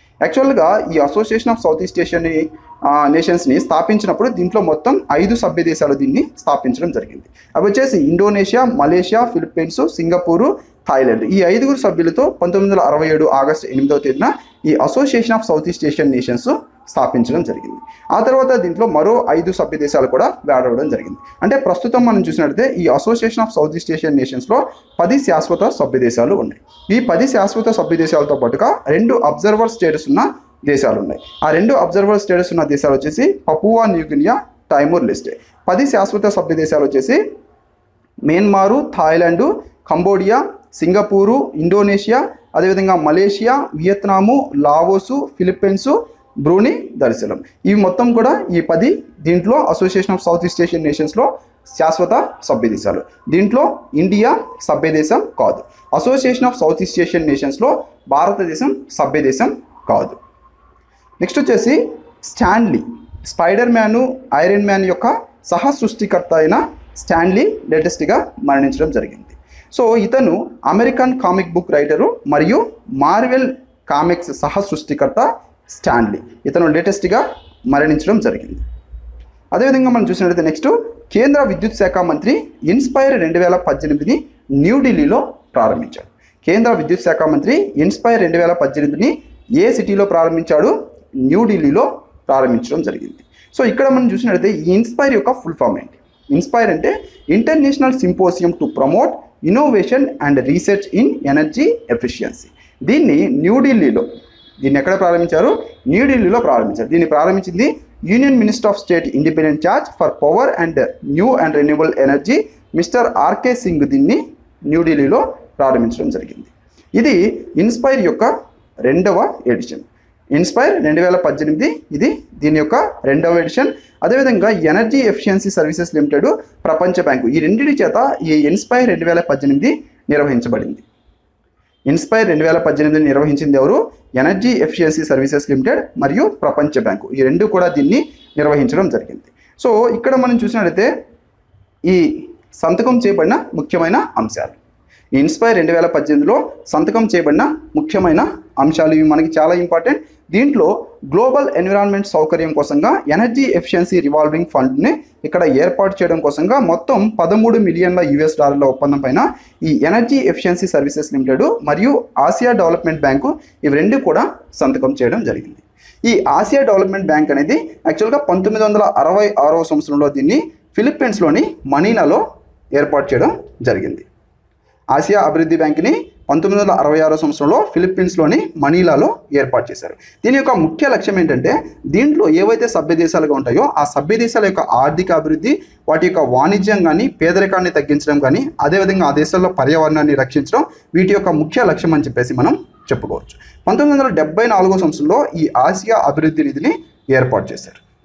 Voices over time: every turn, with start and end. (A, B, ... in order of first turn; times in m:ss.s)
0:00.2-0:37.2 A
0:38.2-1:00.2 A
1:01.2-1:18.6 A
1:19.5-1:44.1 A
1:44.6-1:58.3 A
1:58.8-2:10.8 A
2:11.9-2:20.9 A
2:21.8-2:24.6 A
2:25.1-2:54.0 A
2:54.9-3:17.8 A